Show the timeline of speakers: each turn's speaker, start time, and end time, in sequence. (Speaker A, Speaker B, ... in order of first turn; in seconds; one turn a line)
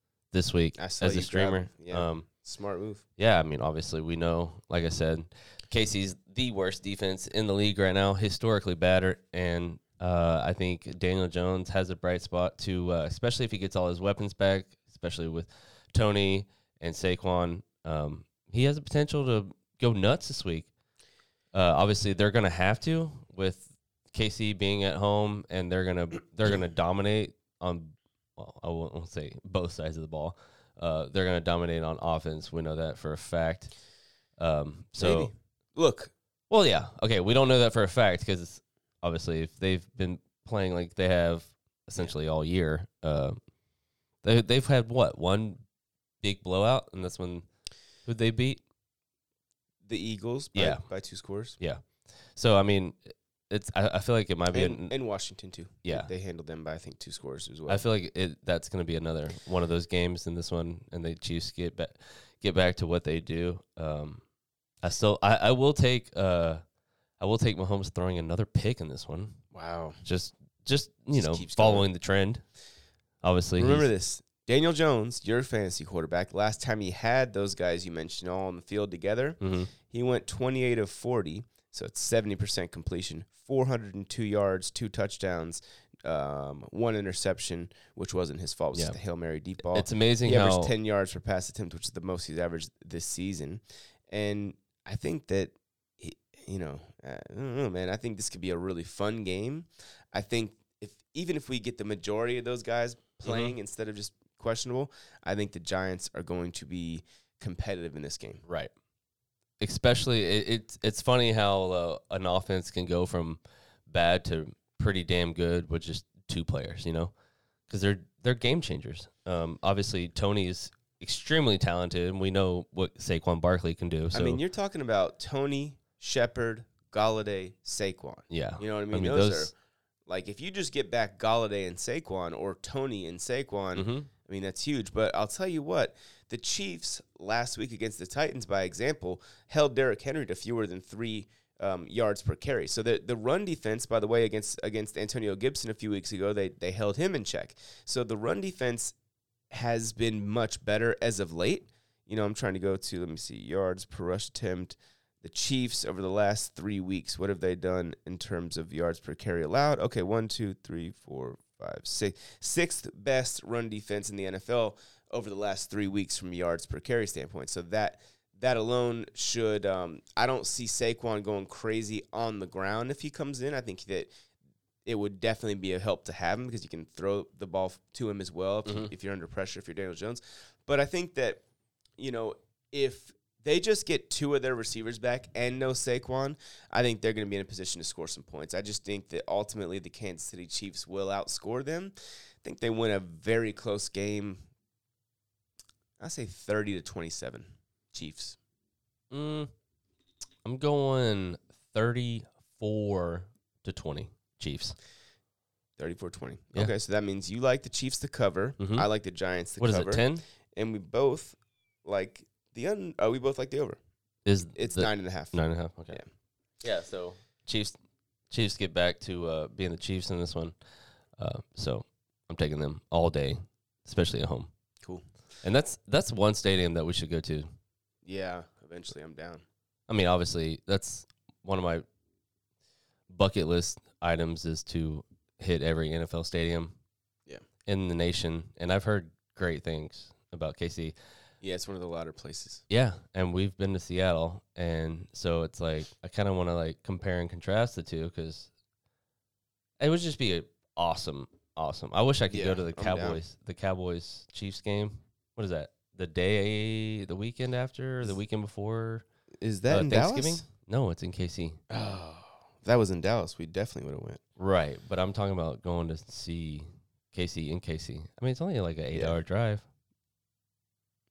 Speaker A: 0.3-2.2
Speaker B: 0.8-3.0
Speaker A: 3.2-20.7
Speaker A: 21.5-33.7
Speaker A: 34.4-35.3
Speaker B: 35.0-36.1
Speaker A: 36.5-43.4
Speaker A: 44.2-45.6
Speaker A: 46.2-47.5
Speaker A: 48.0-48.6
Speaker B: 49.8-51.6
Speaker A: 50.5-50.8
Speaker A: 51.6-54.9
Speaker B: 54.5-57.9
Speaker A: 55.8-56.1
Speaker A: 57.7-64.2
Speaker A: 64.8-66.6
Speaker A: 67.2-69.4
Speaker B: 69.5-70.0
Speaker A: 70.0-72.4
Speaker B: 71.1-71.9
Speaker A: 73.2-73.9
Speaker B: 73.5-108.4
Speaker A: 79.4-79.7
Speaker A: 89.7-90.7
Speaker A: 103.2-103.5
Speaker A: 108.5-108.7
Speaker A: 109.6-117.1
Speaker A: 117.7-124.4
Speaker B: 124.1-129.5
Speaker A: 128.3-129.5
Speaker B: 130.1-148.9
Speaker A: 133.7-134.1
Speaker B: 149.5-174.1
Speaker B: 174.8-181.4
Speaker A: 178.7-178.9
Speaker B: 182.0-194.4
Speaker B: 196.0-198.4
Speaker A: 199.1-199.5
Speaker A: 200.4-204.8
Speaker B: 205.8-213.8
Speaker A: 208.6-208.8
Speaker A: 209.6-210.2
Speaker A: 214.2-216.0
Speaker B: 214.5-215.4
Speaker A: 216.6-217.8
Speaker A: 218.3-220.6
Speaker A: 221.1-224.5
Speaker A: 225.4-227.5
Speaker B: 228.0-229.4
Speaker A: 229.9-231.8
Speaker A: 233.1-236.8
Speaker A: 237.7-240.9
Speaker B: 241.4-242.6
Speaker A: 242.7-248.5
Speaker A: 249.8-259.0
Speaker B: 252.3-253.2
Speaker B: 259.4-260.4
Speaker A: 259.7-261.6
Speaker B: 261.7-264.2
Speaker A: 264.4-269.6